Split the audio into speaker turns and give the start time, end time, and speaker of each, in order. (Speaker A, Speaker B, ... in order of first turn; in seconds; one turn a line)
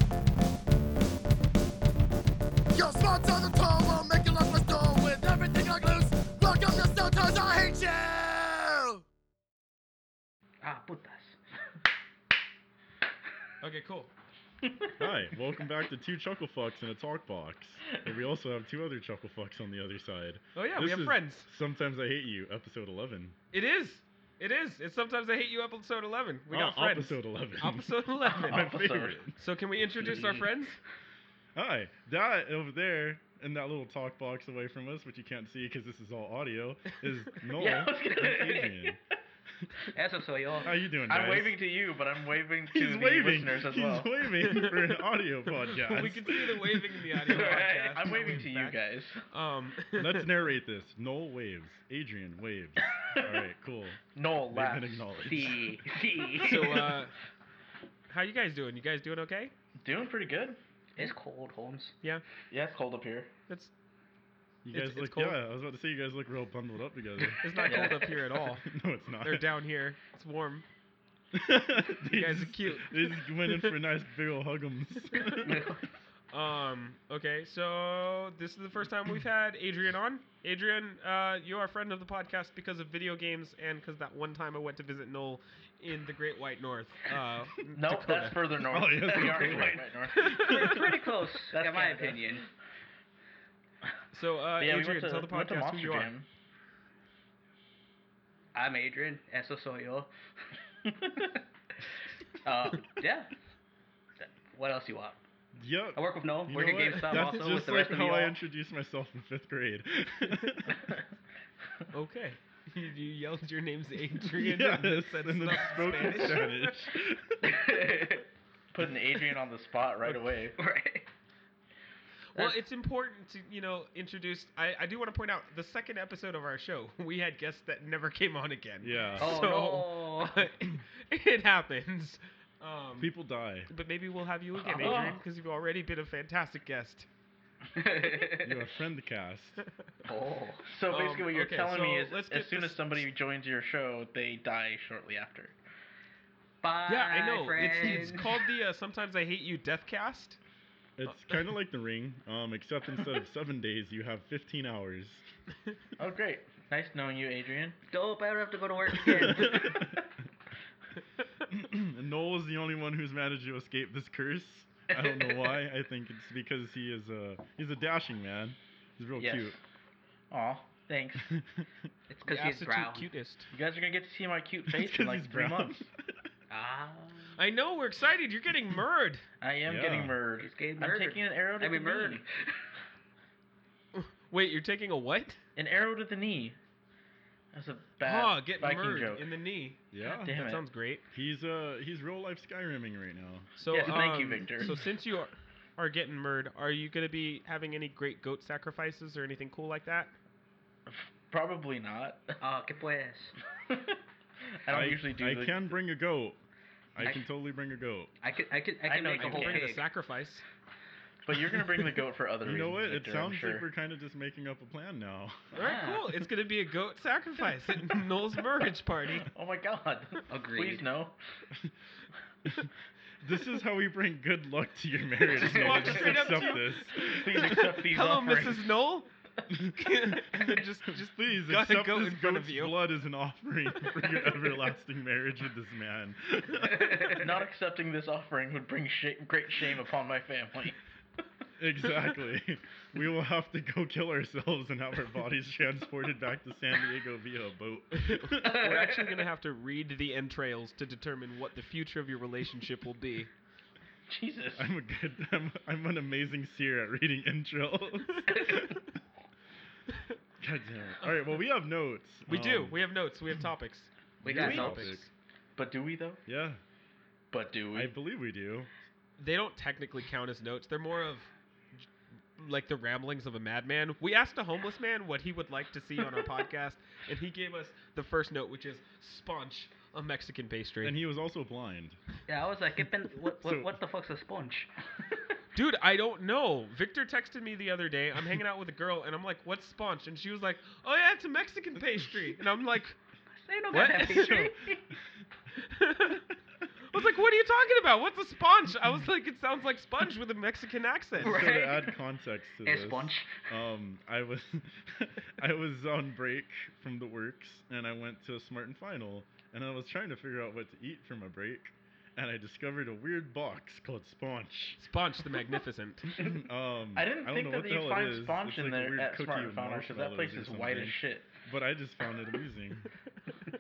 Speaker A: 2.7-9.0
Speaker B: 10.6-11.4
Speaker C: 13.6-14.1
Speaker D: 15.0-23.4
Speaker C: 20.6-21.5
Speaker C: 23.5-28.6
Speaker D: 26.5-27.9
Speaker E: 28.3-29.2
Speaker D: 28.4-29.4
Speaker C: 29.4-30.8
Speaker B: 30.0-30.5
Speaker D: 31.6-39.0
Speaker E: 37.6-38.8
Speaker B: 38.3-38.6
Speaker B: 39.9-40.8
Speaker D: 40.6-41.5
Speaker E: 41.1-44.1
Speaker D: 42.7-47.1
Speaker C: 44.4-44.7
Speaker C: 45.8-50.3
Speaker B: 47.3-48.1
Speaker E: 47.3-49.2
Speaker D: 50.0-54.0
Speaker E: 54.1-55.3
Speaker D: 54.5-55.8
Speaker B: 55.2-56.9
Speaker C: 56.4-57.1
Speaker E: 56.4-56.9
Speaker C: 58.1-59.5
Speaker E: 59.8-61.1
Speaker B: 61.0-61.9
Speaker E: 62.5-63.3
Speaker D: 64.6-67.4
Speaker C: 64.7-65.4
Speaker C: 67.4-68.7
Speaker B: 67.5-68.2
Speaker E: 67.6-67.9
Speaker D: 68.6-69.5
Speaker C: 69.2-70.7
Speaker D: 71.3-75.7
Speaker C: 72.1-73.8
Speaker C: 75.1-75.4
Speaker B: 75.4-75.8
Speaker C: 76.3-88.4
Speaker E: 87.8-90.8
Speaker D: 88.7-89.9
Speaker B: 89.2-89.6
Speaker C: 90.1-90.8
Speaker B: 90.3-92.4
Speaker D: 90.4-90.8
Speaker E: 91.5-92.4
Speaker C: 94.1-96.1
Speaker E: 94.6-96.3
Speaker B: 98.5-100.1
Speaker B: 100.8-101.4
Speaker B: 102.3-103.3
Speaker B: 104.2-105.2
Speaker D: 105.5-110.8
Speaker B: 105.9-108.3
Speaker C: 106.7-107.5
Speaker C: 111.9-116.5
Speaker D: 114.3-117.8
Speaker B: 117.4-118.2
Speaker E: 118.7-120.6
Speaker B: 120.6-121.1
Speaker C: 122.3-133.1
Speaker D: 128.8-129.4
Speaker B: 129.2-130.5
Speaker D: 133.0-133.7
Speaker C: 133.7-137.1
Speaker B: 134.6-135.2
Speaker E: 134.8-135.2
Speaker B: 137.8-138.6
Speaker D: 138.4-139.6
Speaker B: 140.1-140.7
Speaker E: 140.7-145.5
Speaker C: 140.9-143.0
Speaker B: 146.6-148.4
Speaker C: 146.8-150.4
Speaker D: 151.0-155.2
Speaker E: 156.0-157.8
Speaker B: 157.9-159.8
Speaker D: 159.0-160.0
Speaker D: 161.5-169.5
Speaker E: 164.9-165.5
Speaker E: 169.2-169.6
Speaker E: 170.3-171.3
Speaker D: 171.2-171.7
Speaker B: 172.1-173.1
Speaker C: 172.2-173.5
Speaker E: 173.5-175.9
Speaker D: 174.7-176.1
Speaker B: 176.5-177.4
Speaker C: 177.3-179.2
Speaker E: 179.4-182.2
Speaker D: 179.7-180.2
Speaker B: 180.4-182.4
Speaker C: 183.9-185.4
Speaker E: 185.6-186.6
Speaker E: 187.5-189.3
Speaker C: 188.0-191.0
Speaker D: 189.9-190.3
Speaker E: 190.0-190.6
Speaker D: 191.1-193.5
Speaker C: 193.6-200.1
Speaker E: 193.7-194.7
Speaker E: 200.9-202.3
Speaker B: 202.4-203.3
Speaker E: 203.7-204.0
Speaker E: 204.6-205.7
Speaker D: 204.7-206.4
Speaker D: 206.9-208.1
Speaker B: 208.2-209.8
Speaker E: 208.8-209.8
Speaker C: 209.2-210.4
Speaker E: 211.2-213.7
Speaker D: 212.4-215.4
Speaker B: 215.5-216.2
Speaker C: 215.5-219.3
Speaker E: 219.3-221.2
Speaker B: 220.3-220.8
Speaker D: 223.2-227.7
Speaker C: 225.3-229.1
Speaker E: 225.6-226.3
Speaker E: 226.9-228.7
Speaker D: 229.5-237.2
Speaker C: 229.7-232.8
Speaker B: 236.6-237.3
Speaker E: 237.1-240.8
Speaker D: 241.6-248.7
Speaker C: 247.9-253.3
Speaker B: 248.4-249.2
Speaker E: 254.1-254.7
Speaker D: 254.6-258.8
Speaker D: 260.4-262.8
Speaker C: 262.3-263.9
Speaker B: 264.2-265.0
Speaker D: 264.2-265.1
Speaker E: 264.2-264.9
Speaker C: 264.4-265.1
Speaker E: 265.6-266.2
Speaker D: 266.2-266.6
Speaker E: 267.3-267.9
Speaker D: 267.7-268.7
Speaker C: 269.2-271.9
Speaker C: 272.4-281.0
Speaker D: 280.8-282.0
Speaker B: 282.3-284.7
Speaker D: 283.4-283.8
Speaker C: 285.6-293.0
Speaker B: 293.3-294.8
Speaker C: 293.7-294.5
Speaker D: 294.1-294.6
Speaker C: 295.6-296.2
Speaker C: 296.9-301.5
Speaker D: 301.2-314.8
Speaker B: 301.2-301.9
Speaker B: 302.6-303.4
Speaker C: 314.8-316.2
Speaker D: 316.1-322.9
Speaker E: 316.9-321.3